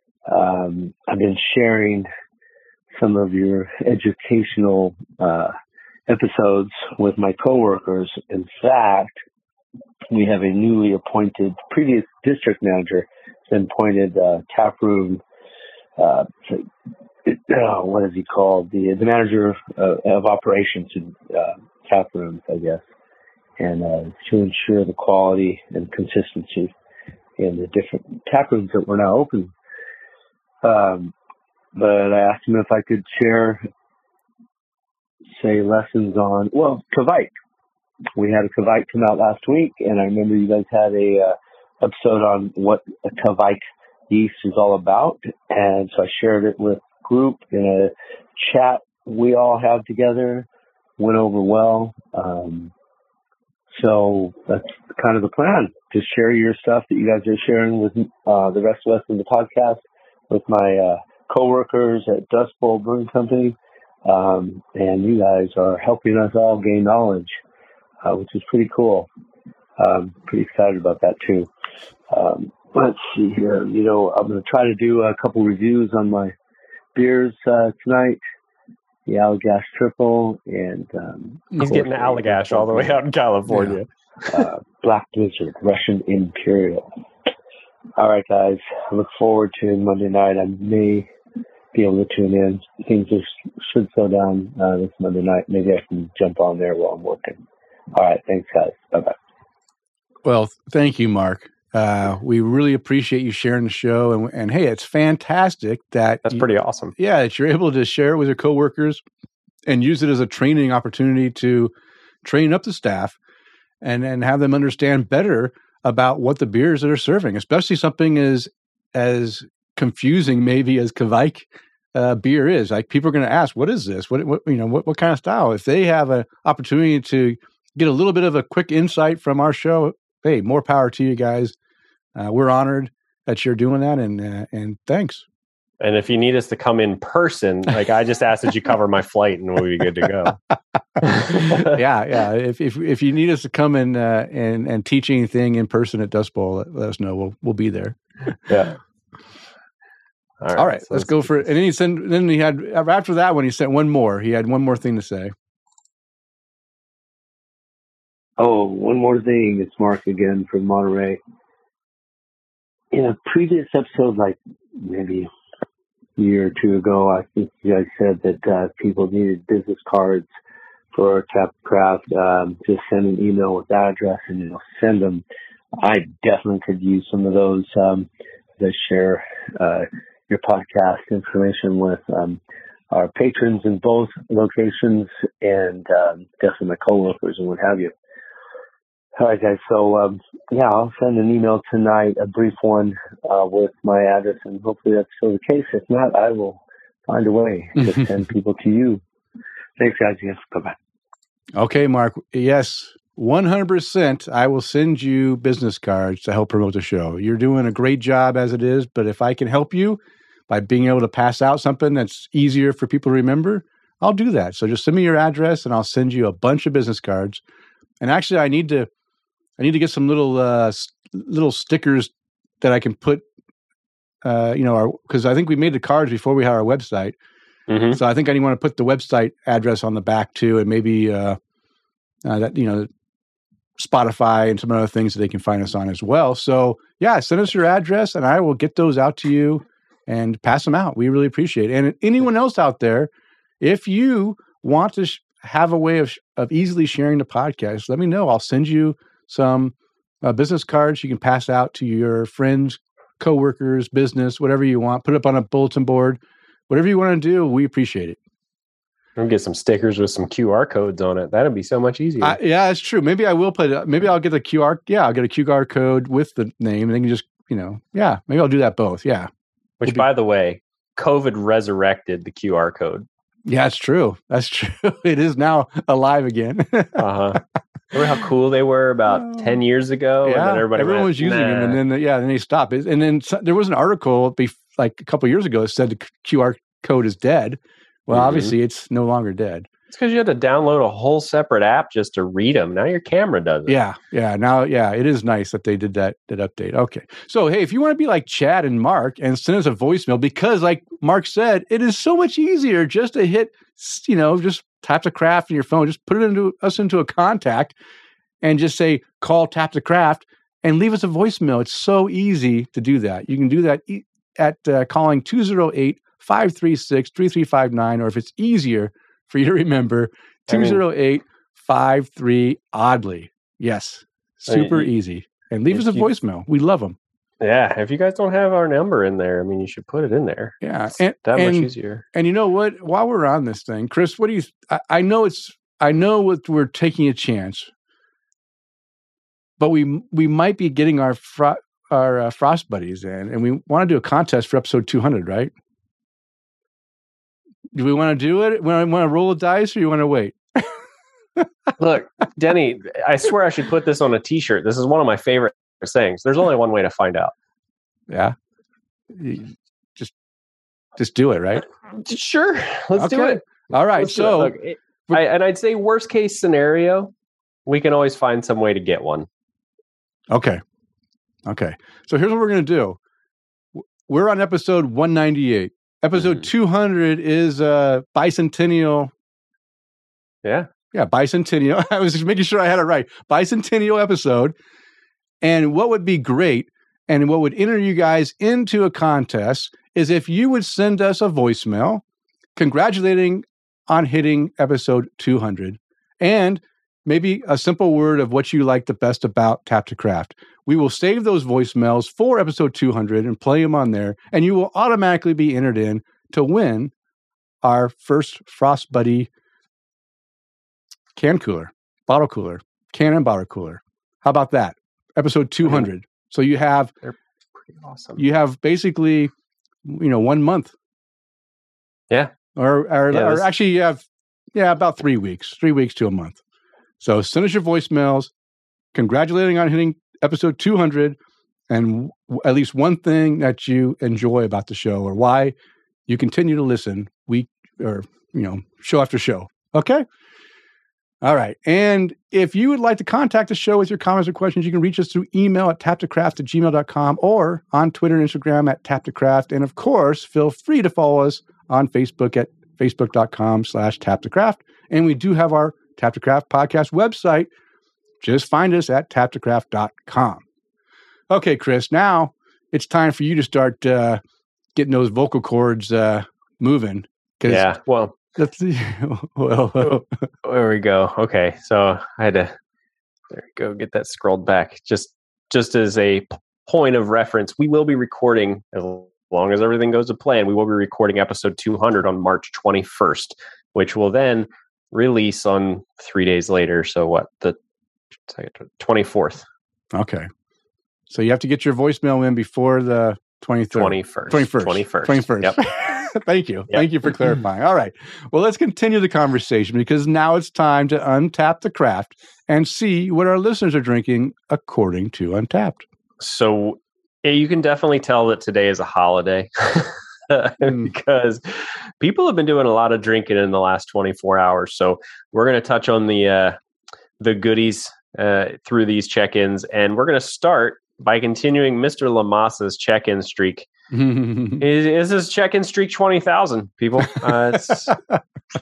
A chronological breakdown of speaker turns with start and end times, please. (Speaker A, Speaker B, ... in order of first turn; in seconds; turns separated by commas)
Speaker A: 0.3-2.1, Speaker A: 3.0-5.5, Speaker A: 6.1-9.1, Speaker A: 10.1-15.2, Speaker A: 16.0-16.7, Speaker A: 17.2-22.8, Speaker A: 23.6-26.7, Speaker A: 27.4-29.5, Speaker A: 30.6-31.1, Speaker A: 31.8-33.6, Speaker A: 35.4-37.3, Speaker A: 38.2-50.5, Speaker A: 51.0-52.7, Speaker A: 53.8-67.3, Speaker A: 68.0-69.1, Speaker A: 69.8-71.5, Speaker A: 72.1-76.3, Speaker A: 77.0-78.2, Speaker A: 79.1-83.0, Speaker B: 81.6-83.9, Speaker C: 83.5-83.8, Speaker A: 84.3-86.9, Speaker A: 88.0-91.1, Speaker A: 91.7-97.4, Speaker A: 98.0-99.2, Speaker C: 100.2-106.5, Speaker B: 106.2-106.9, Speaker C: 107.0-109.0, Speaker C: 109.7-111.7, Speaker C: 112.2-113.2, Speaker C: 113.8-131.6, Speaker C: 132.2-135.2, Speaker B: 135.8-140.4, Speaker B: 141.0-141.7, Speaker C: 141.1-148.0, Speaker B: 148.5-148.8, Speaker B: 150.4-151.5, Speaker C: 150.6-155.3, Speaker A: 158.4-161.2, Speaker A: 162.9-165.3, Speaker A: 166.2-170.3, Speaker A: 170.9-175.2, Speaker A: 175.8-178.1, Speaker A: 178.6-182.4, Speaker A: 182.9-187.9, Speaker A: 189.2-199.0, Speaker A: 199.8-200.8, Speaker C: 201.6-217.4, Speaker C: 218.0-218.9, Speaker C: 219.6-223.3, Speaker C: 224.2-227.2, Speaker B: 227.7-228.0, Speaker C: 227.9-231.4, Speaker C: 232.2-232.9, Speaker C: 233.8-243.1, Speaker C: 243.6-258.2, Speaker B: 259.2-262.4, Speaker C: 262.2-269.3, Speaker B: 269.8-273.1, Speaker C: 273.5-277.0, Speaker B: 277.0-277.4, Speaker B: 277.9-281.8, Speaker C: 280.2-289.7, Speaker B: 288.1-288.5, Speaker B: 289.9-293.8, Speaker C: 293.7-307.8, Speaker C: 308.4-327.0, Speaker B: 320.5-320.8, Speaker B: 324.5-324.9, Speaker B: 325.7-326.1, Speaker B: 327.4-330.6, Speaker C: 330.6-337.7, Speaker B: 331.2-332.0, Speaker C: 339.6-345.5, Speaker C: 347.7-350.7, Speaker B: 351.8-357.3, Speaker C: 358.1-358.4, Speaker C: 359.1-360.1, Speaker C: 361.0-361.6, Speaker B: 361.9-367.1, Speaker C: 362.9-364.6, Speaker B: 367.7-369.3, Speaker C: 370.3-370.6, Speaker C: 371.5-373.0, Speaker C: 373.8-379.1, Speaker B: 376.2-376.5, Speaker B: 380.4-380.7, Speaker C: 380.9-384.6, Speaker C: 385.4-392.0, Speaker C: 392.6-406.9, Speaker C: 407.6-409.3, Speaker C: 411.2-416.9, Speaker B: 417.7-418.2, Speaker C: 418.2-419.3, Speaker C: 419.9-420.7, Speaker C: 422.6-426.4, Speaker B: 423.1-423.5, Speaker C: 427.0-428.3, Speaker C: 428.9-431.2, Speaker C: 431.7-435.6, Speaker C: 436.1-440.1, Speaker C: 441.2-457.5, Speaker C: 458.2-460.4, Speaker C: 461.3-464.2, Speaker C: 464.8-467.7, Speaker B: 467.5-468.1, Speaker C: 468.4-470.2, Speaker B: 470.4-472.5, Speaker B: 473.3-487.6, Speaker B: 488.3-489.4, Speaker C: 489.9-490.3, Speaker C: 491.1-505.9, Speaker B: 493.7-495.6, Speaker B: 506.2-516.6, Speaker B: 517.2-523.7, Speaker C: 523.9-524.6, Speaker B: 524.6-528.0, Speaker C: 527.9-528.2